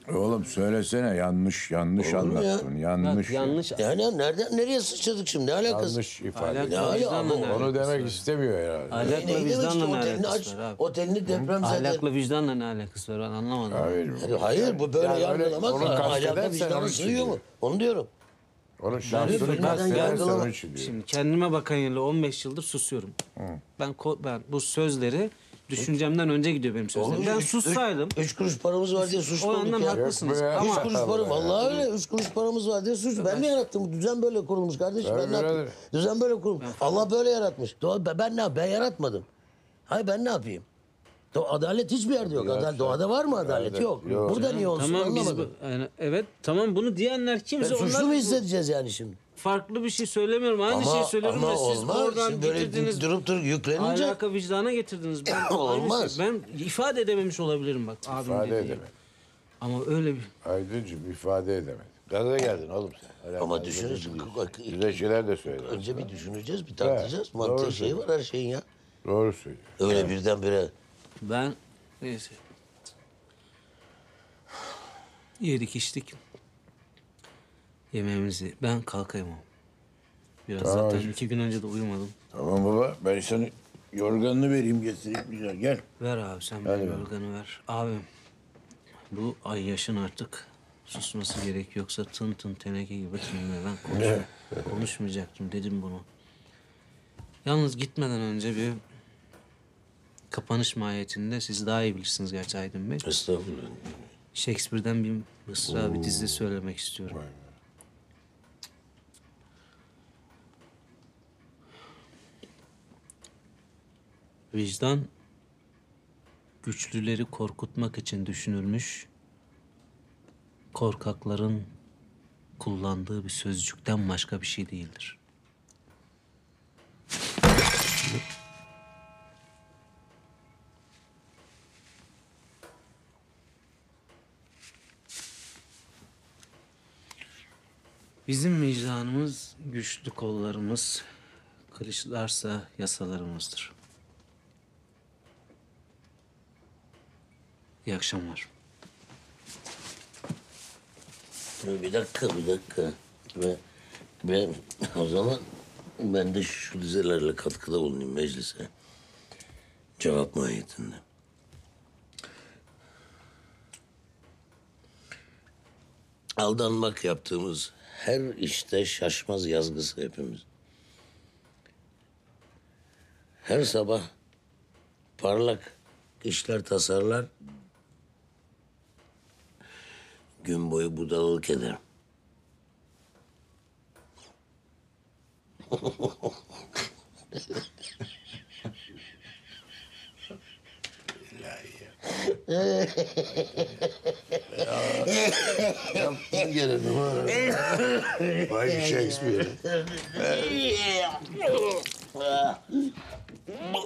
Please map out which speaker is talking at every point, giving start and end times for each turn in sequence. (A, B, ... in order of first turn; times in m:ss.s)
0:00.1-0:03.6 A
0:02.0-0:02.7 B
0:03.0-0:03.9 C
0:03.7-0:06.0 B
0:05.7-0:09.5 A
0:06.3-0:08.2 C
0:06.6-0:07.7 B
0:08.9-0:10.8 C
0:09.0-0:12.0 B
0:11.3-0:11.5 A
0:11.6-0:14.1 C
0:13.7-0:17.4 A
0:14.2-0:18.1 B
0:18.8-0:21.0 A
0:19.0-0:23.2 C
0:19.1-0:20.5 B
0:23.4-0:23.6 A
0:23.8-0:28.2 C
0:26.9-0:39.2 B
0:29.0-0:30.9 C
0:29.9-0:31.9 A
0:33.2-0:33.5 C
0:35.0-0:35.8 A
0:36.6-0:37.1 C
0:39.9-0:40.6 B
0:41.3-0:45.5 B
0:42.2-0:44.5 A
0:44.2-0:48.4 C
0:47.6-0:49.2 B
0:49.4-0:53.1 C
0:50.7-0:54.2 B
0:53.8-0:58.8 C
0:55.3-0:56.2 B
0:58.1-0:58.9 A
0:59.6-1:00.3 C
1:00.4-1:06.1 A
1:03.4-1:05.0 B
1:05.5-1:08.6 B
1:06.8-1:08.0 A
1:09.0-1:10.1 A
1:09.8-1:10.7 B
1:11.2-1:12.4 C
1:15.4-1:16.2 C
1:17.9-1:19.4 C
1:20.5-1:22.1 C
1:20.6-1:21.2 A
1:22.3-1:25.8 A
1:26.0-1:28.0 C
1:26.6-1:27.1 A
1:29.1-1:36.0 C
1:33.9-1:34.3 B
1:37.4-1:38.8 C
1:40.3-1:43.1 C
1:43.0-1:43.9 B
1:44.3-1:47.2 C
1:54.5-1:55.1 C
1:56.6-1:59.1 C
2:00.7-2:01.7 C
2:02.6-2:05.2 C
2:18.3-2:21.0 C
2:21.7-2:23.7 C
2:27.8-2:28.5 C
2:31.6-2:33.6 B
2:34.2-2:35.4 B
2:36.0-2:38.7 B
2:40.0-2:41.0 B
2:46.4-2:50.4 B
2:53.4-2:54.1 B
2:55.2-2:57.3 B
3:00.4-3:01.8 B
3:11.3-3:11.8 A
3:12.1-3:22.6 B
3:14.5-3:15.2 A
3:15.8-3:16.6 A
3:18.5-3:19.6 A
3:20.1-3:20.6 A